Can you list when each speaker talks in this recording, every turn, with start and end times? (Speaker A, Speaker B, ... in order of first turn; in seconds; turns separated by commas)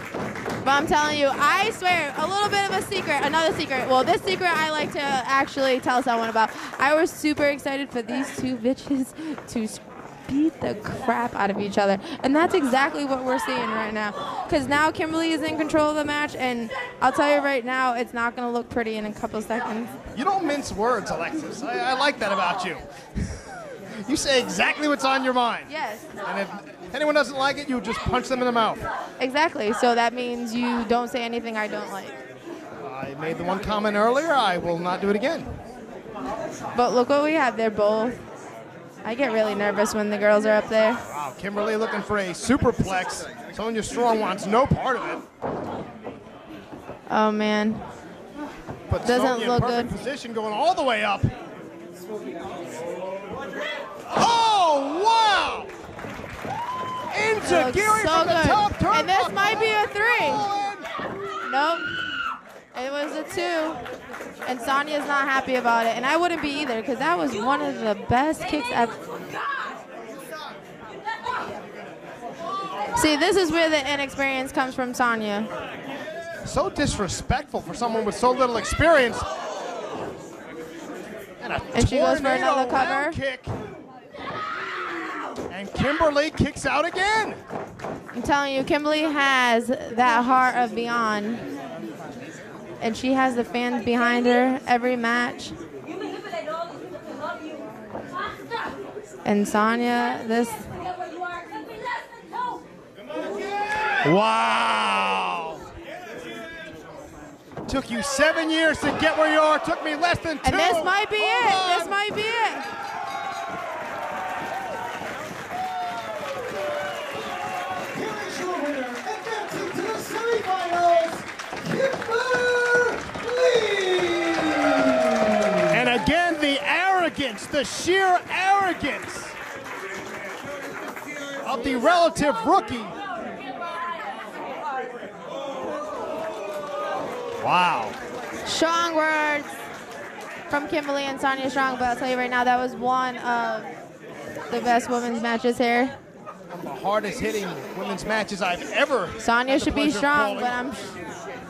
Speaker A: 0.6-19.9, Speaker B: 20.1-22.8, Speaker B: 24.1-25.7, Speaker A: 25.7-26.1, Speaker B: 26.2-28.9, Speaker A: 29.2-32.2, Speaker B: 32.8-35.5, Speaker A: 36.8-38.2, Speaker A: 39.0-41.0, Speaker B: 41.0-45.2, Speaker A: 47.1-47.8, Speaker B: 48.9-51.3, Speaker A: 49.0-49.9, Speaker B: 54.1-55.7, Speaker B: 57.1-60.9, Speaker A: 57.4-60.5, Speaker A: 61.4-62.0, Speaker A: 62.7-63.8, Speaker A: 64.5-69.0, Speaker A: 73.0-75.5, Speaker B: 76.4-79.2, Speaker B: 81.4-83.5, Speaker A: 81.7-83.2, Speaker B: 85.5-87.4, Speaker A: 88.1-91.4, Speaker A: 92.8-95.5, Speaker A: 99.2-100.7, Speaker B: 104.0-105.6, Speaker B: 107.7-112.0, Speaker A: 110.4-112.7, Speaker C: 118.0-121.2, Speaker C: 121.7-124.7, Speaker B: 125.7-129.4, Speaker B: 131.4-132.9, Speaker B: 137.4-138.0, Speaker A: 138.5-139.5, Speaker A: 140.5-143.7, Speaker A: 144.5-145.9, Speaker B: 146.5-150.6, Speaker A: 149.2-151.0